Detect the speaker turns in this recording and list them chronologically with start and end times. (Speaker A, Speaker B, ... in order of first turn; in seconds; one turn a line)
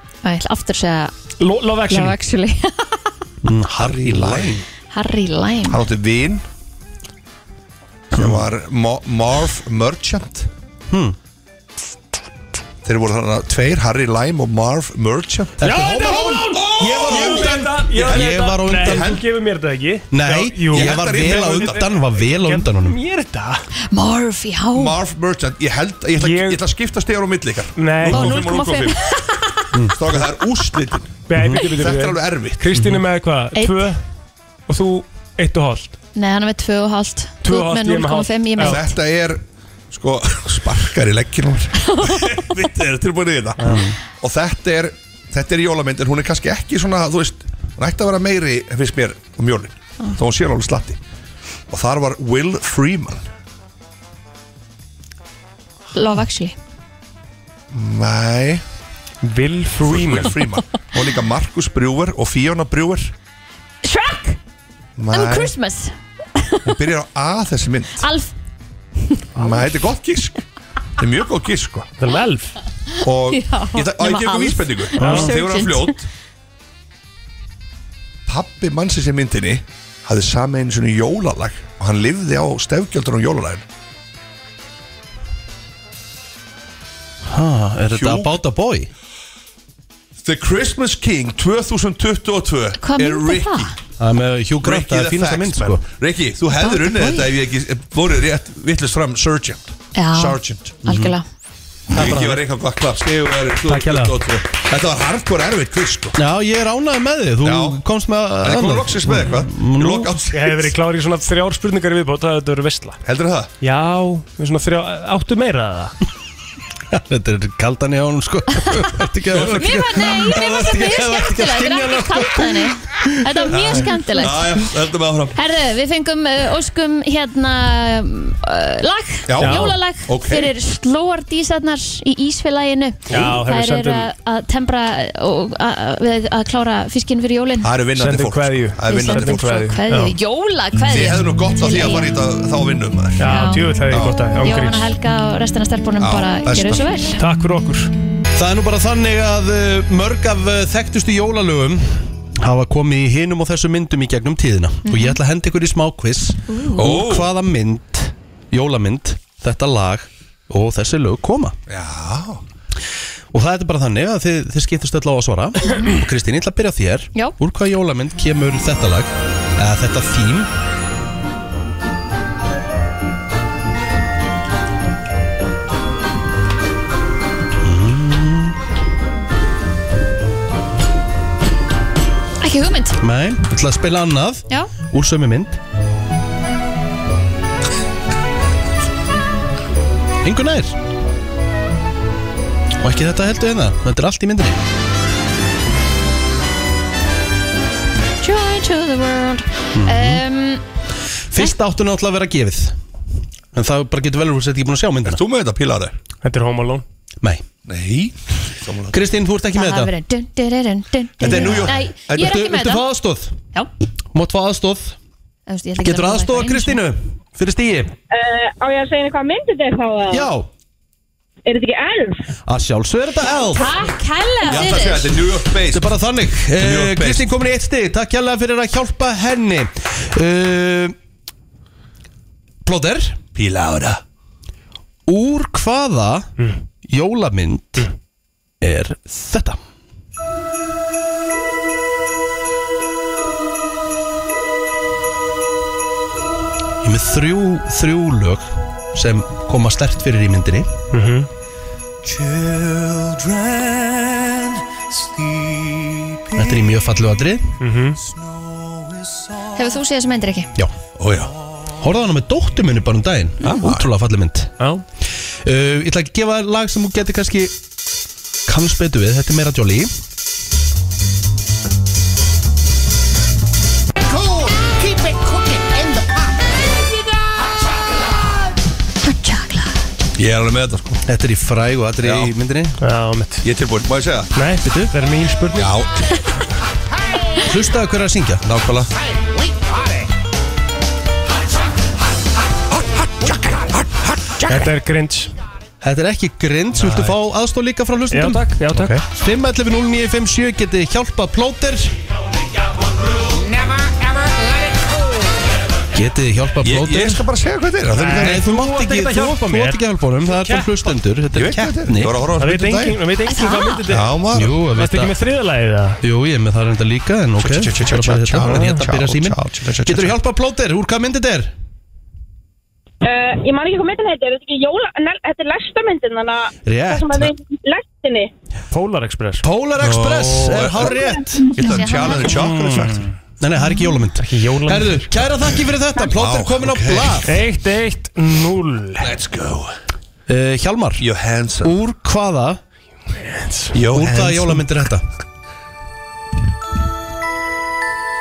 Speaker A: 0.2-1.1
Speaker B: 1.4-2.2
Speaker A: 1.9-3.1
Speaker C: 3.4-4.6
Speaker D: 3.8-4.6
Speaker A: 4.9-5.8
Speaker D: 5.7-6.4
Speaker D: 8.1-10.5
Speaker C: 8.1-8.4
Speaker C: 10.9-11.2
Speaker D: 12.8-19.2
Speaker C: 15.6-19.2
Speaker B: 15.6-23.6
Speaker C: 20.1-23.0
Speaker D: 20.7-21.8
Speaker A: 23.9-25.0
Speaker D: 24.7-29.0
Speaker B: 26.2-26.6
Speaker B: 27.8-28.4
Speaker A: 28.1-29.6
Speaker D: 29.9-32.6
Speaker B: 31.3-34.0
Speaker C: 31.4-31.6
Speaker C: 32.8-33.0
Speaker A: 33.5-33.9
Speaker B: 34.7-36.0
Speaker A: 36.1-38.9
Speaker B: 37.4-38.8
Speaker D: 38.6-51.0
Speaker A: 41.9-42.5
Speaker B: 43.6-43.9
Speaker D: 51.7-53.2
Speaker A: 55.9-56.5
Speaker D: 57.7-58.6
Speaker B: 59.2-60.4
Speaker D: 59.8-63.1
Speaker A: 63.8-64.4
Speaker D: 65.0-65.5
Speaker A: 65.1-66.7
Speaker D: 66.6-68.1
Speaker A: 68.0-68.3
Speaker A: 69.1-69.6
Speaker D: 69.3-70.4
Speaker D: 71.0-71.9
Speaker B: 72.0-72.5
Speaker A: 73.0-76.0
Speaker D: 73.0-76.0
Speaker B: 75.0-75.3
Speaker D: 78.3-83.6
Speaker C: 87.2-88.9
Speaker D: 87.9-88.3
Speaker D: 90.2-93.7
Speaker A: 92.8-93.7
Speaker C: 94.0-95.8
Speaker D: 94.6-100.8
Speaker A: 96.6-97.3
Speaker A: 99.9-101.2
Speaker C: 100.8-101.2
Speaker D: 101.9-106.2
Speaker C: 101.9-102.4
Speaker C: 103.7-104.2
Speaker C: 106.2-110.1
Speaker D: 107.4-107.8
Speaker D: 108.4-110.7
Speaker B: 110.3-113.0
Speaker D: 113.0-113.5
Speaker B: 113.6-116.0
Speaker C: 116.9-122.7
Speaker D: 119.3-119.7
Speaker A: 119.4-124.7
Speaker D: 123.5-125.4
Speaker A: 125.3-137.7
Speaker D: 129.3-130.5
Speaker B: 129.4-129.8
Speaker B: 133.1-134.1
Speaker D: 137.6-139.4
Speaker B: 138.0-140.1
Speaker A: 138.8-142.2
Speaker D: 140.8-143.3
Speaker B: 143.2-144.9
Speaker A: 143.2-143.8
Speaker D: 143.9-144.2
Speaker A: 144.4-147.2
Speaker D: 146.0-146.9
Speaker B: 147.2-147.9
Speaker C: 148.3-161.6
Speaker A: 154.8-155.2
Speaker A: 156.5-156.9
Speaker D: 156.8-157.3
Speaker D: 161.7-162.4
Speaker C: 163.3-170.5
Speaker C: 177.6-178.6
Speaker A: 182.4-183.0
Speaker C: 183.0-185.6
Speaker C: 190.2-190.8
Speaker C: 192.8-194.6
Speaker A: 198.2-200.6
Speaker C: 199.7-200.2
Speaker C: 201.3-202.8
Speaker C: 203.5-205.2
Speaker D: 205.0-205.9
Speaker B: 206.2-206.8
Speaker C: 207.2-207.5
Speaker D: 207.7-209.0
Speaker C: 208.9-209.9
Speaker A: 209.5-212.8
Speaker D: 211.2-212.3
Speaker C: 211.3-213.4
Speaker C: 214.1-215.0
Speaker A: 215.5-216.8
Speaker C: 215.8-217.9
Speaker E: 218.1-220.3
Speaker C: 220.1-220.5
Speaker E: 221.4-222.2
Speaker C: 222.4-223.8
Speaker A: 223.5-225.2
Speaker D: 224.4-225.9
Speaker C: 225.7-230.9
Speaker D: 226.5-227.3
Speaker C: 232.6-233.2
Speaker D: 233.3-234.0
Speaker C: 235.1-236.3
Speaker C: 236.8-237.9
Speaker C: 238.6-239.6
Speaker C: 246.8-250.7
Speaker B: 250.9-251.3
Speaker D: 252.8-253.7
Speaker D: 255.3-256.2
Speaker C: 256.3-257.6
Speaker B: 257.6-258.0
Speaker A: 259.5-260.5
Speaker D: 260.9-261.3
Speaker C: 261.8-264.5
Speaker D: 263.4-263.9
Speaker C: 265.4-267.6
Speaker C: 268.4-269.9
Speaker D: 274.1-276.1
Speaker A: 279.0-279.8
Speaker D: 280.1-281.0
Speaker C: 281.1-282.8
Speaker D: 282.0-282.3
Speaker B: 282.8-283.4
Speaker D: 283.4-284.3
Speaker B: 284.3-285.7
Speaker C: 284.6-284.9
Speaker D: 285.5-286.0
Speaker C: 287.4-288.4
Speaker D: 288.4-288.9
Speaker D: 292.7-294.5
Speaker B: 294.4-295.3
Speaker C: 295.8-302.0
Speaker D: 296.8-297.1
Speaker B: 298.1-298.9
Speaker D: 298.7-299.0
Speaker C: 305.9-307.3
Speaker D: 306.6-308.4
Speaker B: 307.9-310.9
Speaker C: 308.1-312.2
Speaker D: 311.3-313.0
Speaker B: 312.4-314.2
Speaker A: 313.2-313.8
Speaker D: 313.9-314.6
Speaker C: 314.3-315.1
Speaker B: 314.7-316.0
Speaker C: 316.0-321.5
Speaker D: 317.4-320.1
Speaker B: 318.4-318.7
Speaker E: 323.0-328.3
Speaker C: 326.6-327.3
Speaker B: 328.7-329.4
Speaker C: 329.4-331.6
Speaker D: 329.8-333.1
Speaker A: 331.6-332.5
Speaker B: 332.2-333.1
Speaker C: 333.4-337.4
Speaker B: 334.1-335.2
Speaker D: 336.1-337.3
Speaker B: 337.2-339.1
Speaker D: 339.0-339.7
Speaker C: 340.3-341.1
Speaker D: 341.0-341.8
Speaker C: 341.6-342.6
Speaker B: 343.2-343.7
Speaker D: 343.7-344.6
Speaker C: 343.9-345.1